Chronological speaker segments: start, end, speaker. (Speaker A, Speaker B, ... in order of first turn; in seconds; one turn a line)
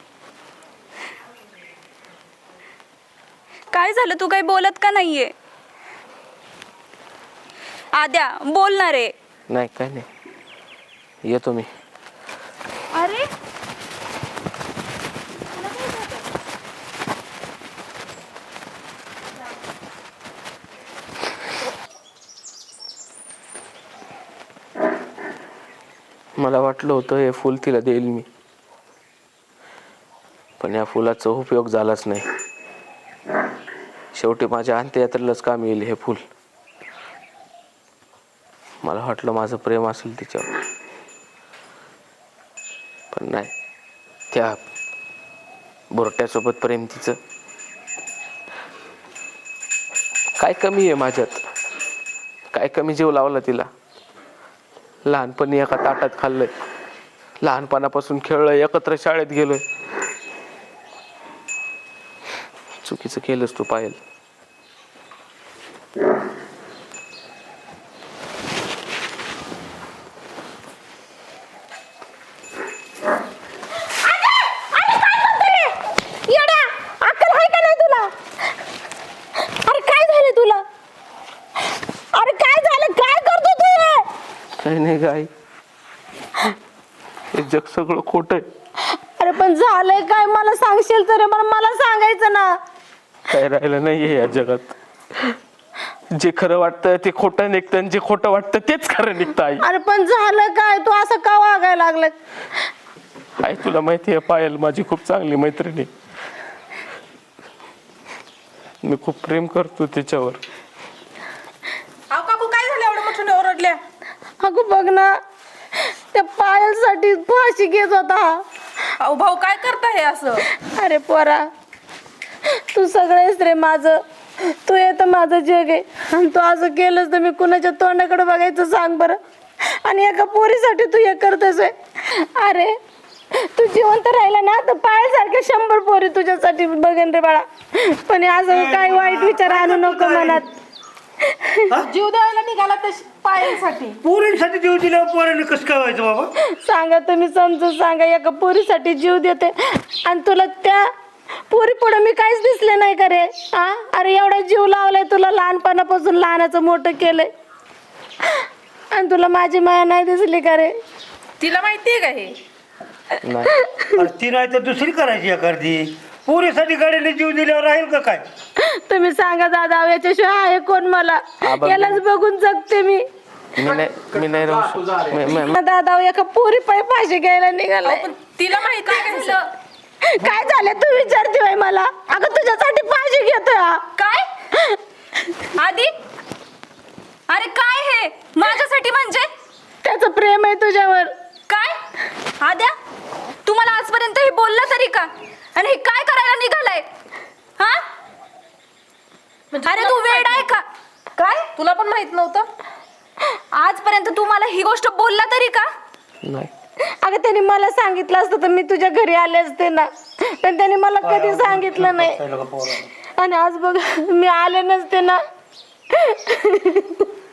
Speaker A: 3.7-5.3
Speaker A: 7.9-9.1
Speaker B: 9.5-10.1
Speaker B: 11.2-11.7
Speaker A: 12.9-13.3
Speaker B: 26.4-28.2
Speaker B: 30.6-32.3
Speaker B: 34.1-36.2
Speaker B: 38.8-40.5
Speaker B: 43.1-43.5
Speaker B: 44.3-44.6
Speaker B: 45.9-47.2
Speaker B: 50.4-51.4
Speaker B: 52.5-53.7
Speaker B: 55.1-56.5
Speaker B: 57.4-59.6
Speaker B: 62.8-64.0
Speaker C: 74.0-78.1
Speaker C: 79.6-80.6
Speaker C: 82.1-84.1
Speaker B: 84.6-85.3
Speaker B: 87.3-88.5
Speaker C: 89.2-92.5
Speaker B: 93.3-95.4
Speaker B: 96.1-99.7
Speaker C: 99.6-102.1
Speaker B: 103.4-105.9
Speaker B: 108.8-110.4
Speaker D: 112.1-113.8
Speaker C: 114.4-115.1
Speaker C: 116.1-118.4
Speaker D: 119.0-120.5
Speaker C: 120.6-121.4
Speaker C: 122.7-124.0
Speaker C: 124.6-129.2
Speaker C: 129.8-132.7
Speaker C: 133.4-140.4
Speaker E: 138.5-140.4
Speaker C: 141.4-141.8
Speaker D: 141.8-144.0
Speaker E: 144.0-146.3
Speaker C: 146.5-150.8
Speaker C: 151.5-157.3
Speaker C: 158.9-160.7
Speaker D: 161.4-162.4
Speaker B: 163.2-163.5
Speaker C: 163.7-164.0
Speaker E: 163.9-168.3
Speaker C: 168.6-173.0
Speaker B: 171.4-172.0
Speaker B: 173.6-175.5
Speaker C: 175.3-178.1
Speaker D: 177.8-179.4
Speaker C: 178.9-179.3
Speaker C: 180.0-183.8
Speaker A: 184.0-184.3
Speaker A: 185.6-185.9
Speaker A: 187.3-189.3
Speaker C: 189.8-191.1
Speaker A: 191.5-191.8
Speaker A: 192.4-192.7
Speaker A: 193.4-196.8
Speaker D: 199.5-200.5
Speaker A: 199.6-200.6
Speaker A: 201.2-201.5
Speaker D: 201.5-202.5
Speaker A: 203.5-205.7
Speaker B: 206.2-206.5
Speaker C: 207.0-212.2
Speaker E: 211.0-212.9
Speaker C: 213.2-215.2
Speaker C: 215.9-217.1